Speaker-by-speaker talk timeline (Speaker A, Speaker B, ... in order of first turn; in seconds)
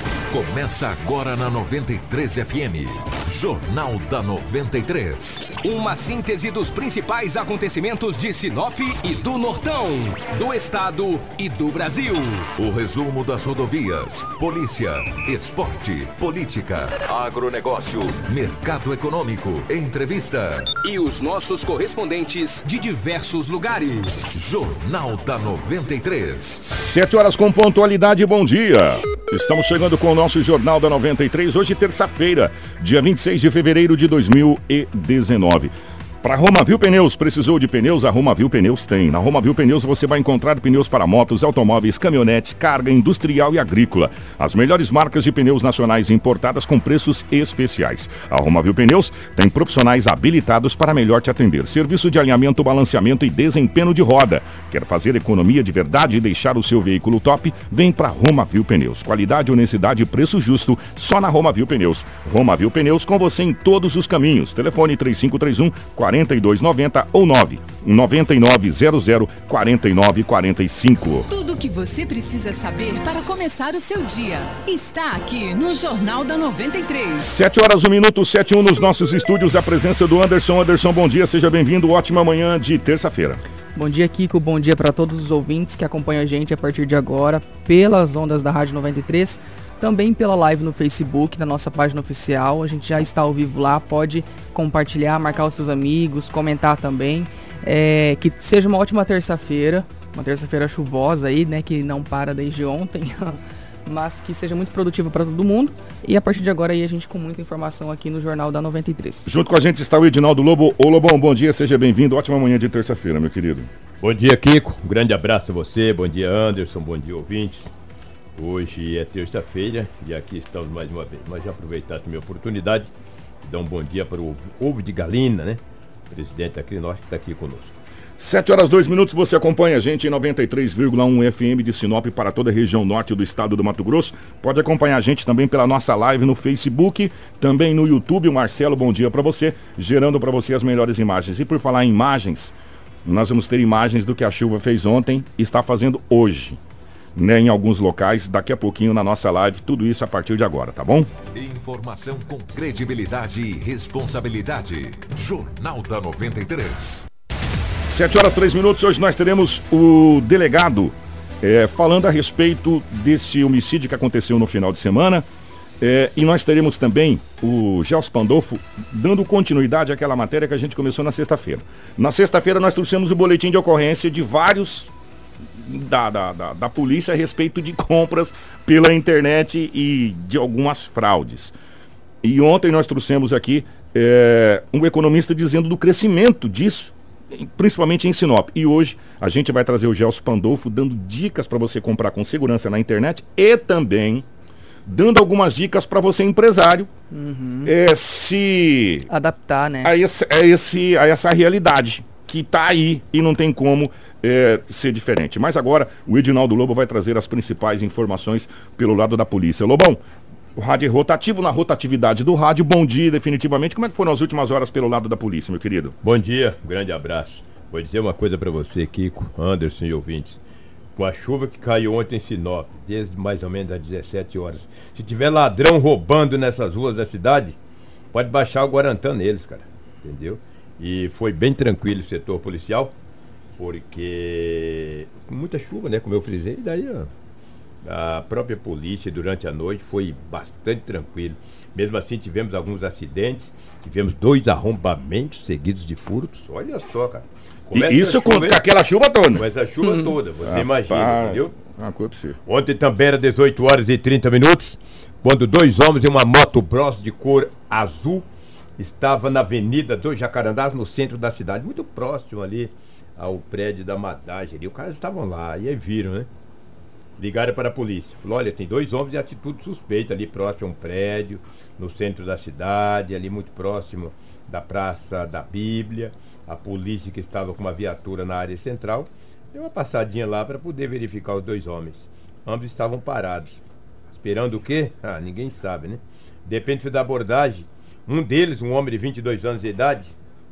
Speaker A: 0.3-5.5, 12.6-20.8, 24.2-26.6, 151.3-157.1
Speaker B: 5.6-12.5, 20.8-24.2
Speaker C: 26.6-71.3, 77.2-83.4, 109.2-113.7, 128.2-146.6, 147.2-151.1, 157.8-165.3, 165.8-174.9, 175.5-181.6, 182.2-194.3, 194.9-196.9, 197.6-199.1, 199.8-210.0, 210.6-216.0, 247.7-249.5, 250.4-252.4
Speaker D: 71.3-77.3
Speaker E: 83.8-109.3, 197.1-197.7, 199.1-199.9
Speaker F: 114.0-117.7, 118.3-127.8, 216.0-220.4, 220.9-227.6, 228.1-233.0, 233.6-237.1, 237.8-248.6, 249.3-251.5, 252.5-258.3, 258.8-266.3, 267.2-283.6, 284.1-290.1